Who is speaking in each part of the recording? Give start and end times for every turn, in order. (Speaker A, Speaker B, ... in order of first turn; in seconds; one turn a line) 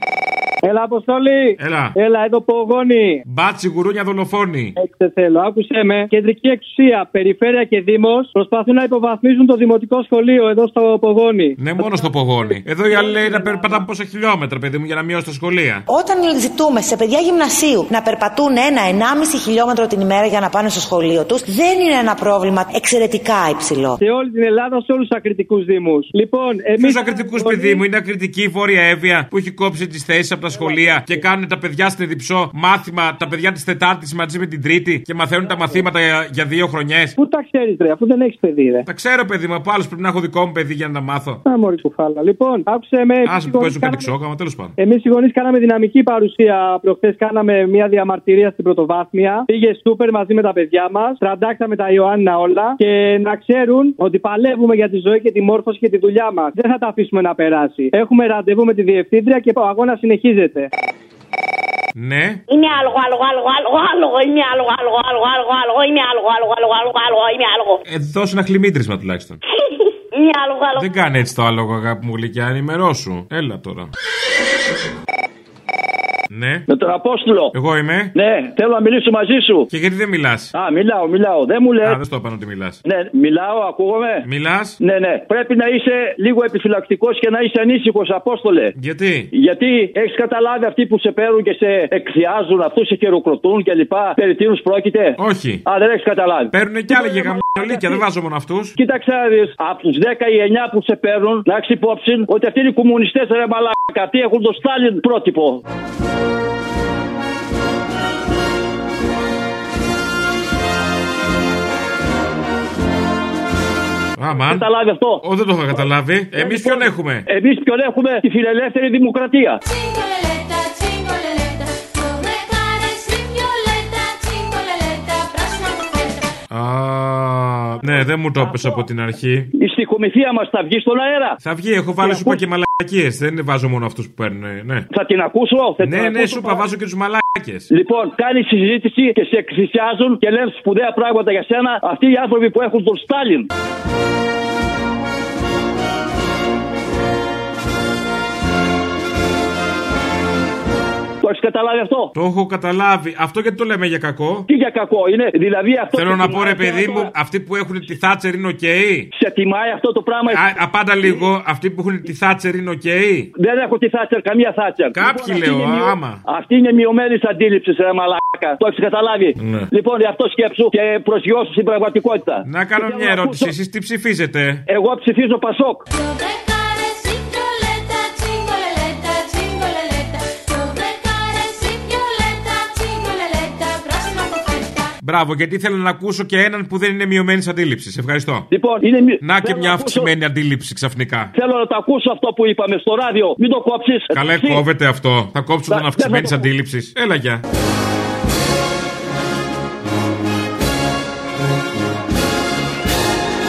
Speaker A: 0.6-3.2
Speaker B: 1.6-1.9
Speaker B: 3.2-4.7
Speaker A: 4.8-12.1
Speaker B: 11.6-15.8
Speaker A: 12.8-13.8
Speaker C: 15.9-24.0
Speaker A: 24.0-27.8
Speaker B: 26.8-37.1
Speaker A: 30.5-31.2
Speaker A: 35.5-35.8
Speaker A: 37.2-38.9
Speaker B: 38.9-41.4
Speaker A: 41.5-44.1
Speaker B: 43.2-44.7
Speaker A: 44.8-60.7
Speaker B: 62.0-62.4
Speaker D: 62.5-64.1
Speaker D: 64.8-67.4
Speaker B: 67.8-69.4
Speaker B: 70.8-73.9
Speaker B: 76.3-76.6
Speaker E: 76.7-77.5
Speaker B: 77.5-78.1
Speaker E: 78.1-79.7
Speaker B: 79.7-80.5
Speaker E: 80.5-82.0
Speaker B: 81.8-82.8
Speaker E: 82.8-84.2
Speaker B: 84.2-84.8
Speaker E: 84.8-88.7
Speaker B: 88.7-89.3
Speaker E: 89.3-96.5
Speaker B: 95.2-95.6
Speaker B: 96.5-98.7
Speaker A: 96.9-98.0
Speaker E: 98.8-105.6
Speaker B: 114.2-117.2
Speaker E: 114.4-115.2
Speaker E: 116.3-119.6
Speaker D: 120.2-121.1
Speaker D: 122.2-125.2
Speaker B: 126.5-129.5
Speaker E: 129.6-131.4
Speaker B: 131.4-134.8
Speaker E: 134.9-136.6
Speaker B: 135.8-137.7
Speaker E: 137.7-143.5
Speaker E: 151.2-152.1
Speaker B: 152.1-154.5
Speaker E: 154.5-157.1
Speaker B: 155.9-159.1
Speaker E: 159.1-160.4
Speaker B: 160.2-163.3
Speaker E: 163.4-173.5
Speaker B: 164.9-166.2
Speaker B: 169.3-169.7
Speaker B: 172.4-174.6
Speaker E: 174.7-175.8
Speaker D: 177.6-177.9
Speaker D: 178.7-184.6
Speaker B: 185.0-188.5
Speaker E: 188.5-190.1
Speaker B: 189.2-191.3
Speaker E: 191.3-194.6
Speaker B: 194.1-197.4
Speaker E: 195.7-196.5